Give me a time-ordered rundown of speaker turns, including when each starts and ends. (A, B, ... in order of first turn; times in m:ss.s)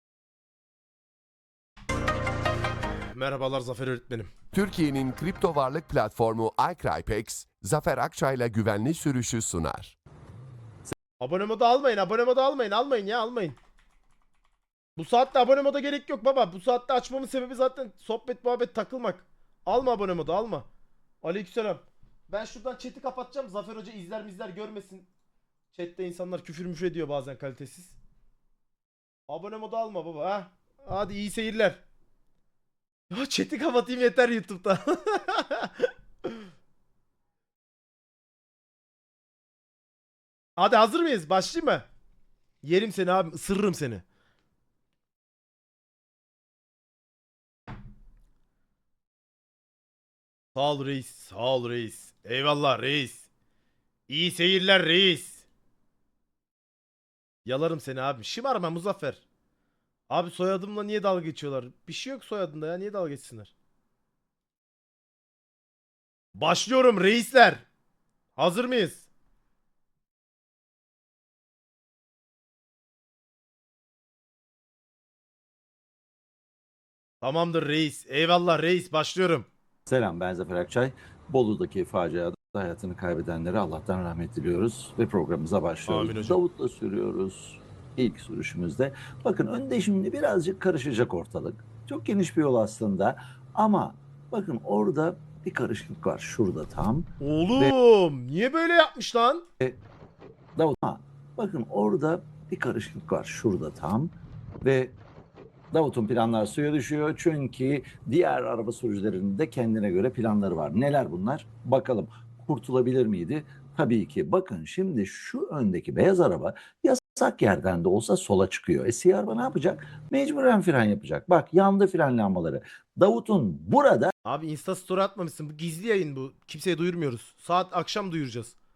0:03.1-0:04.3 A
0:04.5-0:09.9 B
0:11.2-0:13.6 A
0:15.0-0:20.7 A
0:21.2-0:25.1 A
0:25.7-0:28.0 A
0:29.3-0:31.8 A
0:33.1-0:36.4 A
0:40.6-0:41.8 A
0:42.6-0:44.0 A
0:50.5-0:53.2 A
0:54.1-0:55.4 A
0:57.4-0:59.2 A
1:00.1-1:03.5 A
1:06.3-1:07.6 A
1:08.4-1:09.0 A
1:17.2-1:19.5 A
1:19.8-1:37.8 C
1:25.9-1:26.4 A
1:37.2-1:39.4 A
1:40.6-1:45.0 C
1:45.7-2:04.1 C
2:04.2-2:08.5 A